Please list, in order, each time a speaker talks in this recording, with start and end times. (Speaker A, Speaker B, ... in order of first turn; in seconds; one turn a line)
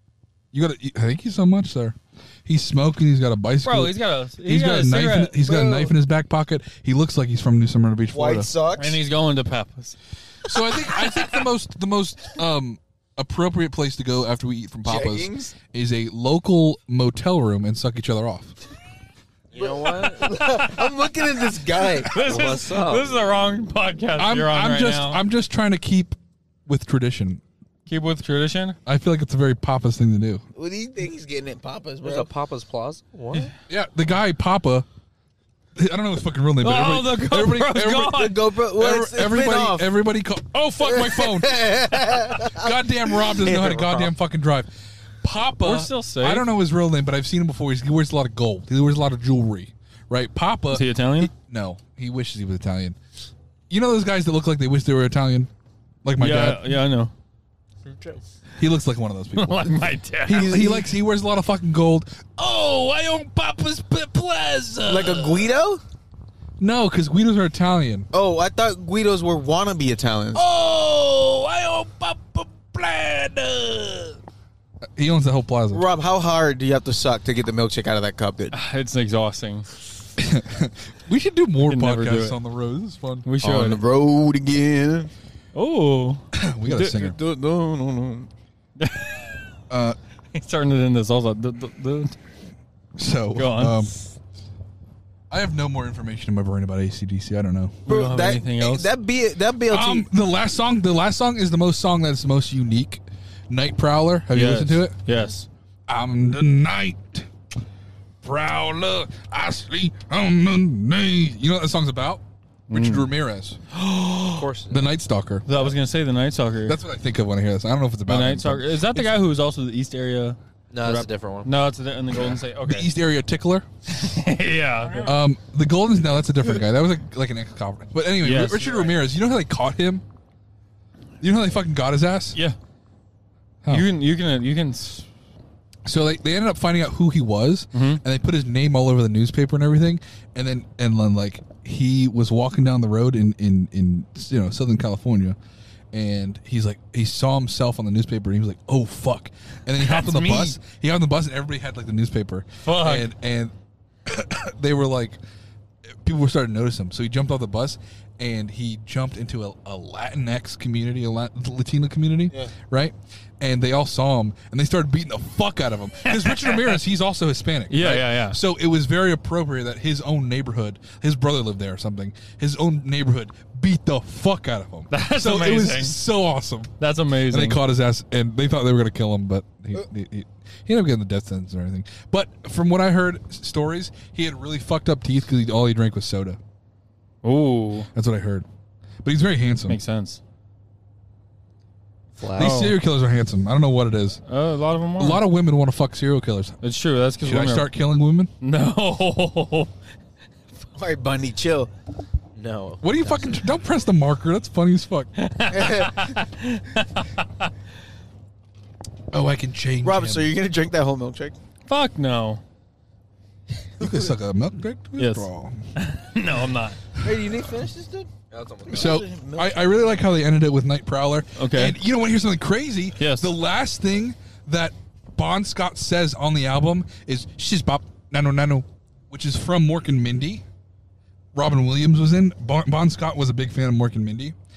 Speaker A: 0.5-8.5
Speaker B: 3.6-5.6
Speaker C: 5.5-5.9
Speaker C: 8.1-9.0
Speaker B: 8.8-10.0
Speaker A: 10.4-18.6
Speaker C: 14.8-15.6
Speaker D: 19.5-20.5
Speaker C: 19.5-22.1
Speaker B: 20.0-20.9
Speaker B: 22.0-25.2
Speaker D: 22.1-23.1
Speaker A: 24.1-27.4
Speaker B: 27.9-28.8
Speaker A: 28.9-30.4
Speaker C: 30.5-32.3
Speaker D: 32.0-33.5
Speaker A: 33.7-34.9
Speaker A: 35.8-41.6
Speaker B: 36.6-38.4
Speaker C: 38.1-39.9
Speaker C: 40.8-44.1
Speaker A: 42.4-53.0
Speaker B: 45.6-46.5
Speaker B: 50.7-51.3
Speaker A: 53.7-55.5
Speaker A: 56.0-56.8
Speaker B: 56.2-57.1
Speaker C: 57.9-58.2
Speaker A: 58.6-65.4
Speaker B: 59.4-60.6
Speaker C: 60.3-60.9
Speaker C: 64.8-65.8
Speaker A: 66.6-68.1
Speaker C: 68.1-70.4
Speaker A: 70.3-74.1
Speaker A: 74.9-75.8
Speaker C: 75.7-78.5
Speaker B: 78.5-79.7
Speaker A: 80.2-83.3
Speaker B: 81.7-82.4
Speaker B: 83.2-83.8
Speaker C: 83.4-85.1
Speaker B: 85.5-87.0
Speaker A: 86.3-87.2
Speaker C: 86.9-88.3
Speaker B: 88.8-89.4
Speaker A: 89.7-90.0
Speaker B: 90.3-92.2
Speaker A: 93.0-93.9
Speaker B: 93.3-94.0
Speaker A: 95.3-97.8
Speaker B: 97.8-98.9
Speaker C: 97.9-100.0
Speaker A: 99.7-105.0
Speaker B: 104.3-105.5
Speaker A: 105.9-107.3
Speaker A: 108.2-113.6
Speaker B: 112.7-113.1
Speaker B: 113.7-114.4
Speaker D: 114.3-114.9
Speaker A: 114.7-115.5
Speaker B: 115.5-116.8
Speaker A: 116.7-119.2
Speaker B: 118.1-122.9
Speaker D: 120.7-121.7
Speaker A: 122.6-123.7
Speaker B: 123.9-125.2
Speaker A: 125.0-130.0
Speaker B: 128.2-129.0
Speaker A: 131.2-132.4
Speaker B: 133.7-135.1
Speaker A: 135.8-145.4
Speaker B: 137.7-138.0
Speaker A: 145.9-153.5
Speaker B: 149.8-150.6
Speaker B: 152.6-153.1
Speaker A: 154.0-155.2
Speaker A: 155.9-176.7
Speaker B: 166.0-166.8
Speaker B: 167.7-168.4
Speaker B: 174.9-176.0
Speaker B: 176.8-177.6
Speaker A: 177.3-186.4
Speaker B: 187.2-187.9
Speaker A: 187.9-188.4
Speaker A: 189.0-189.8
Speaker B: 189.7-190.2
Speaker D: 192.2-192.7
Speaker B: 192.3-192.8
Speaker A: 192.3-194.2
Speaker B: 194.2-195.2
Speaker A: 195.0-196.6
Speaker B: 196.6-197.7
Speaker A: 197.2-198.3
Speaker B: 198.4-199.7
Speaker C: 200.7-201.7
Speaker D: 202.3-203.5
Speaker A: 202.8-205.1
Speaker B: 205.2-207.5
Speaker C: 205.5-206.3
Speaker A: 209.1-210.3
Speaker C: 209.8-211.3
Speaker B: 211.7-212.4
Speaker A: 213.8-215.7
Speaker B: 215.0-216.8
Speaker C: 217.0-218.1
Speaker D: 218.3-219.0
Speaker C: 218.7-219.5
Speaker A: 218.7-230.4
Speaker B: 221.4-221.8
Speaker B: 223.0-223.3
Speaker A: 231.3-234.3